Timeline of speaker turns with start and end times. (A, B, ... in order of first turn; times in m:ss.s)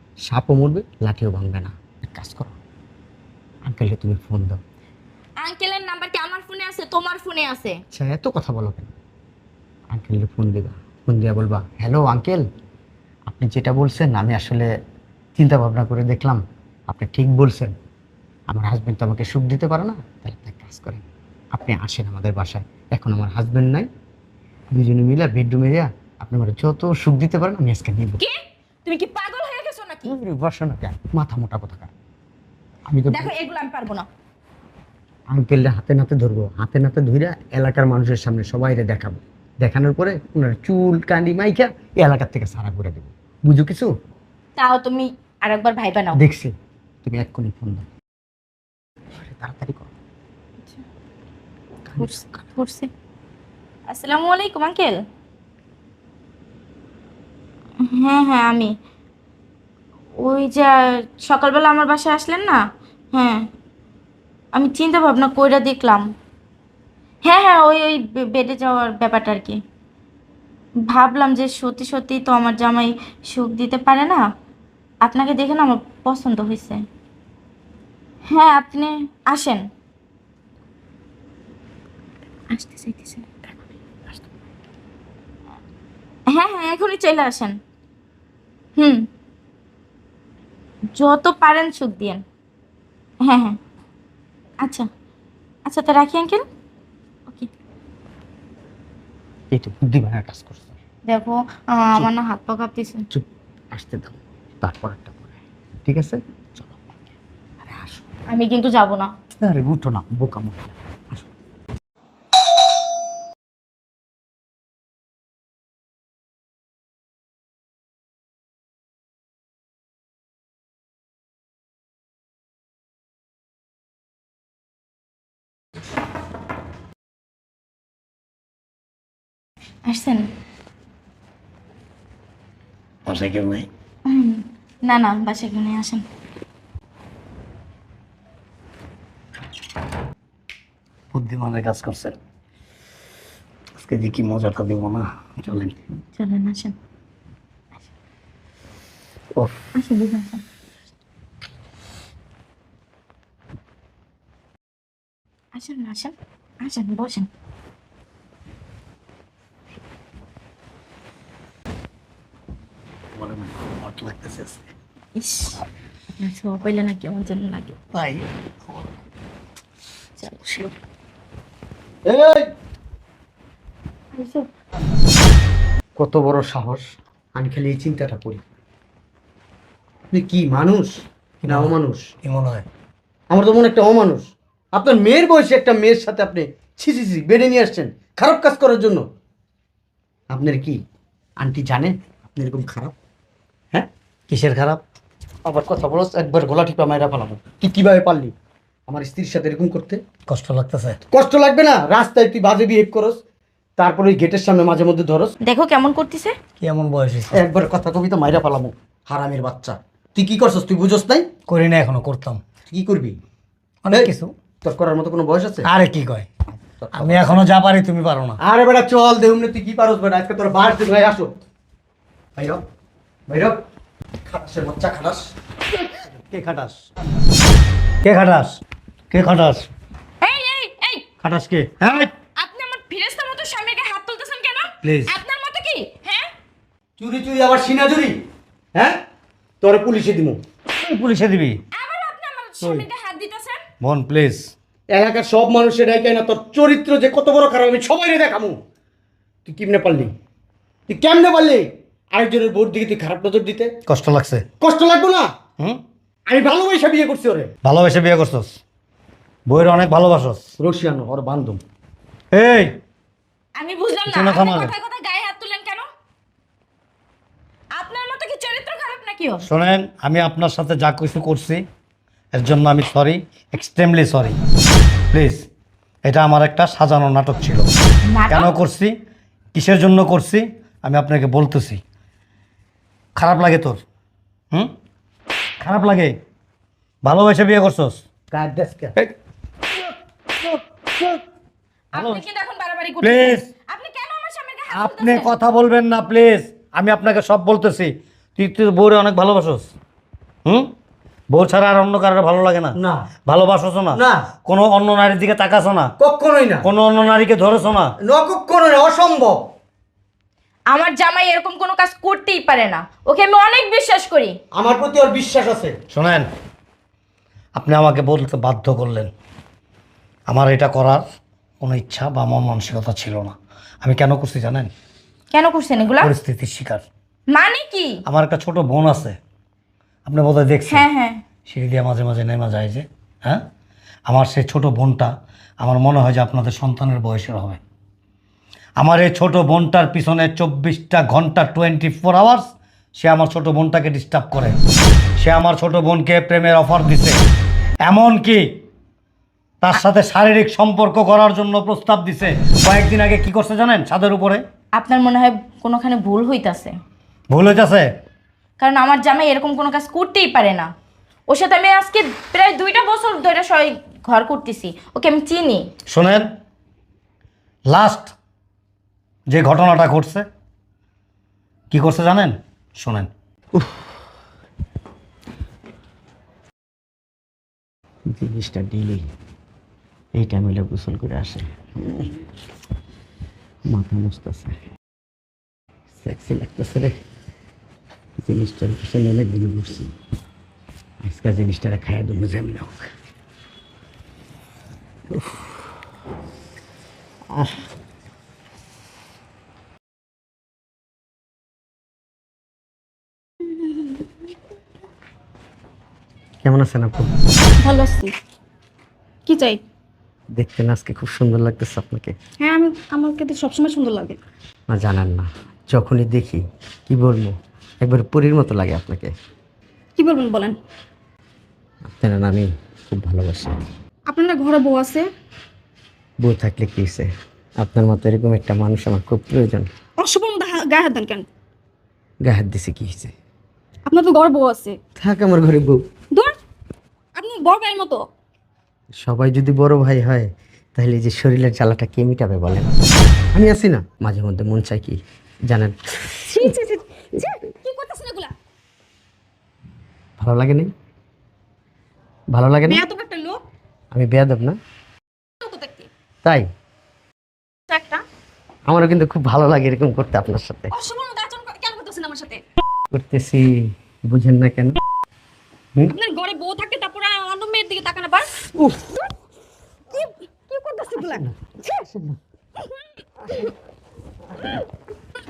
0:00.2-0:02.6 A
0:03.6-0:04.6 A
0:05.4-0:07.8 B
0:07.9-0:08.9 A
0:09.9-0:12.4 A
0:13.3-0:14.7 A
0:15.4-0:17.7 A
0:18.5-0:23.9 A
0:24.7-0:28.2 A
0:28.2-0:30.1 B
0:30.0-0:31.9 A
0:32.9-0:33.3 A
0:33.1-0:34.1 B
0:35.3-0:43.9 A
0:44.6-0:46.2 B
0:46.1-0:46.5 A
0:47.0-0:47.9 A
0:49.1-0:49.9 A
0:51.9-0:52.2 A
0:52.0-0:52.9 B
0:53.9-0:55.0 B
0:57.8-0:58.7 B
1:00.2-1:02.6 B
1:03.1-1:03.4 B
1:04.5-1:06.1 B
1:07.2-1:09.6 B
1:10.9-1:14.2 B
1:15.0-1:16.8 B
1:18.3-1:19.6 B
1:22.5-1:23.6 B
1:26.3-1:27.6 B
1:28.8-1:29.0 B
1:31.0-1:32.2 B
1:33.2-1:33.6 B
1:35.7-1:36.4 B
1:39.5-1:40.7 A
1:41.1-1:43.1 B
1:43.1-1:46.9 A
1:47.6-1:48.1 A
1:48.3-1:49.1 B
1:49.4-1:51.3 A
2:09.8-2:10.3 B
2:13.1-2:13.7 C
2:14.1-2:16.0 B
2:21.1-2:22.2 C
2:23.8-2:25.8 C
2:26.2-2:26.7 B
2:29.8-2:30.4 B
2:35.5-2:37.3 B
2:43.2-2:44.7 C
2:45.2-2:45.6 B
2:46.2-2:47.8 B
2:47.9-2:48.9 C
2:50.4-2:50.7 C
2:52.1-2:52.5 A
2:54.1-2:54.5 B
2:56.0-2:58.4 A
3:00.1-3:02.1 A
3:01.4-3:02.7 C
3:03.3-3:09.0 A
3:10.3-3:10.8 A
3:11.4-3:12.9 A
3:14.3-3:14.8 C
3:15.4-3:18.3 A
3:18.9-3:20.0 A
3:20.3-3:21.0 C
3:21.1-3:23.2 A
3:23.8-3:25.3 A
3:25.4-3:26.3 B
3:26.6-3:27.4 C
3:27.3-3:31.3 A
3:31.5-3:32.4 C
3:32.7-3:33.2 A
3:33.8-3:34.3 C
3:34.6-3:35.7 A
3:35.6-3:36.3 C
3:36.7-3:37.4 A
3:36.9-3:38.4 C
3:38.4-3:41.3 A
3:42.4-3:42.6 A
3:43.3-3:43.6 A
3:44.2-3:45.3 A
3:45.9-3:46.8 C
3:48.0-3:49.7 C
3:50.2-3:51.0 B
3:51.2-3:52.1 C
3:52.4-3:56.3 B
3:54.8-3:55.2 C
3:57.0-3:58.2 A
3:58.7-3:59.0 A
3:59.6-4:00.4 A
4:00.7-4:01.6 C
4:01.7-4:03.6 B
4:03.8-4:04.5 C
4:04.9-4:08.6 A
4:09.4-4:10.1 A
4:10.9-4:13.7 A
4:13.9-4:14.5 C
4:14.6-4:15.3 A
4:16.3-4:17.5 A
4:17.6-4:18.6 C
4:19.5-4:20.5 C
4:20.6-4:21.6 A
4:22.3-4:22.7 C
4:23.6-4:25.8 B
4:24.1-4:24.7 C
4:27.7-4:29.4 B
4:29.4-4:31.6 C
4:32.3-4:34.4 C
4:35.1-4:35.4 C
4:36.0-4:37.7 C
4:38.1-4:38.5 B
4:38.3-4:38.9 C
4:39.5-4:41.8 C
4:43.2-4:43.8 C
4:45.6-4:46.2 C
4:47.0-4:48.0 C
4:48.3-4:49.0 A
4:49.7-4:51.2 C
4:51.9-4:55.3 B
4:51.9-4:52.2 C
4:53.0-4:53.5 C
4:54.7-4:59.7 C
5:00.4-5:00.7 C
5:01.3-5:02.8 C
5:02.8-5:03.1 A
5:03.3-5:05.9 C
5:03.9-5:04.3 A
5:06.0-5:06.7 A
5:06.6-5:07.9 C
5:08.0-5:09.4 A
5:10.7-5:14.4 B
5:14.5-5:15.8 A
5:15.9-5:16.3 C
5:17.6-5:19.1 C
5:20.3-5:21.0 C
5:21.6-5:24.7 C
5:25.3-5:26.1 B
5:26.0-5:26.8 C
5:27.3-5:28.0 B
5:28.1-5:29.2 C
5:30.1-5:30.8 C
5:30.7-5:31.2 B
5:31.5-5:33.4 C
5:34.1-5:37.6 C
5:38.8-5:44.6 C
5:45.2-5:47.2 C
5:47.8-5:48.4 C
5:49.6-5:54.4 C
5:54.8-5:56.7 B
5:57.3-5:57.9 C
5:58.6-6:00.7 B
6:01.3-6:05.7 B
6:05.9-6:06.3 C
6:07.7-6:08.1 C
6:09.3-6:10.2 C
6:11.7-6:13.1 C
6:18.1-6:19.1 A
6:20.2-6:22.1 A
6:23.7-6:24.6 A
6:26.0-6:27.0 A
6:28.2-6:29.9 A
6:31.0-6:32.9 A
6:35.1-6:35.6 A
6:46.4-6:47.1 A
6:47.6-6:48.2 D
6:49.2-6:49.6 D
6:50.3-6:52.2 A
6:52.4-6:54.2 D
6:54.7-6:59.1 A
7:00.0-7:00.6 D
7:01.8-7:03.7 A
7:04.1-7:05.1 D
7:06.2-7:09.7 A
7:10.0-7:11.3 D
7:12.2-7:13.1 A
7:13.8-7:14.8 D
7:15.0-7:15.8 A
7:17.2-7:18.1 D
7:19.0-7:22.8 A
7:23.3-7:26.5 A
7:26.3-7:28.3 D
7:30.2-7:30.7 A
7:32.3-7:32.8 A
7:32.7-7:33.4 D
7:33.9-7:34.6 A
7:35.4-7:35.9 D
7:37.7-7:38.0 D
7:38.7-7:40.7 A
7:40.7-7:42.4 D
7:42.9-7:44.8 A
7:45.9-7:48.3 D
7:48.4-7:48.9 A
7:49.9-7:51.2 D
7:50.9-7:52.2 A